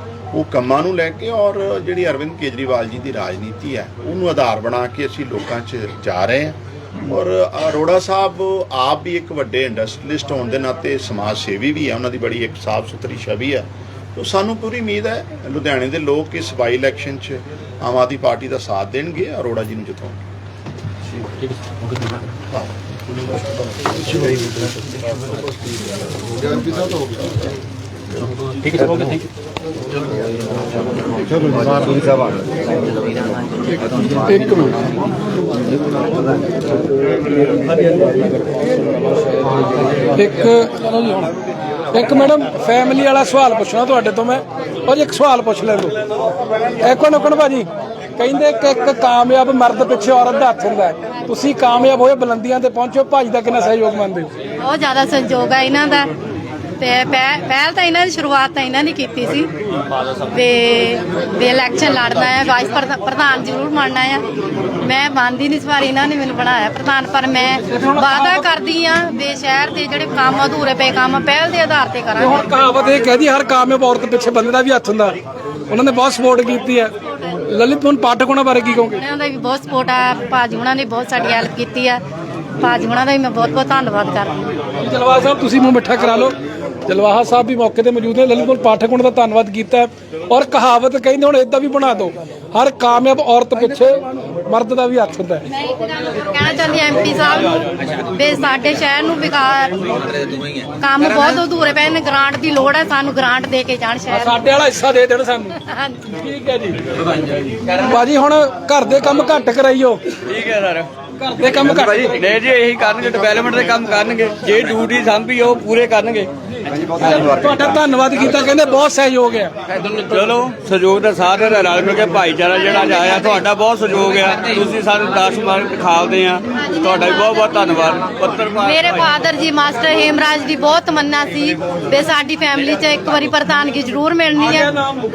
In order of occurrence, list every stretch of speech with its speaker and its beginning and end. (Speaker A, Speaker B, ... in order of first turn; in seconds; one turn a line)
Speaker A: 0.3-20.2
Speaker B: 21.1-22.3
Speaker A: 22.5-24.6
Speaker B: 28.4-29.3
Speaker C: 34.2-34.8
Speaker C: 40.1-41.3
Speaker C: 41.9-46.0
Speaker C: 46.8-54.3
Speaker D: 54.6-56.1
Speaker D: 56.8-59.5
Speaker D: 60.2-64.2
Speaker D: 64.8-72.5
Speaker C: 67.7-68.5
Speaker C: 72.2-75.2
Speaker C: 75.7-76.9
Speaker C: 77.5-79.0
Speaker D: 79.0-82.0
Speaker D: 82.6-84.4
Speaker C: 84.8-86.3
Speaker C: 86.9-95.4
Speaker D: 95.5-100.0
Speaker D: 100.8-104.4
Speaker C: 104.1-105.6
Speaker D: 105.6-106.0
Speaker C: 106.1-106.8
Speaker C: 107.7-110.0
Speaker E: 110.3-110.9
Speaker C: 111.2-112.2
Speaker E: 111.5-116.3
Speaker C: 117.0-119.5
Speaker E: 119.8-129.1
Speaker D: 128.6-134.7
Speaker C: 134.5-135.0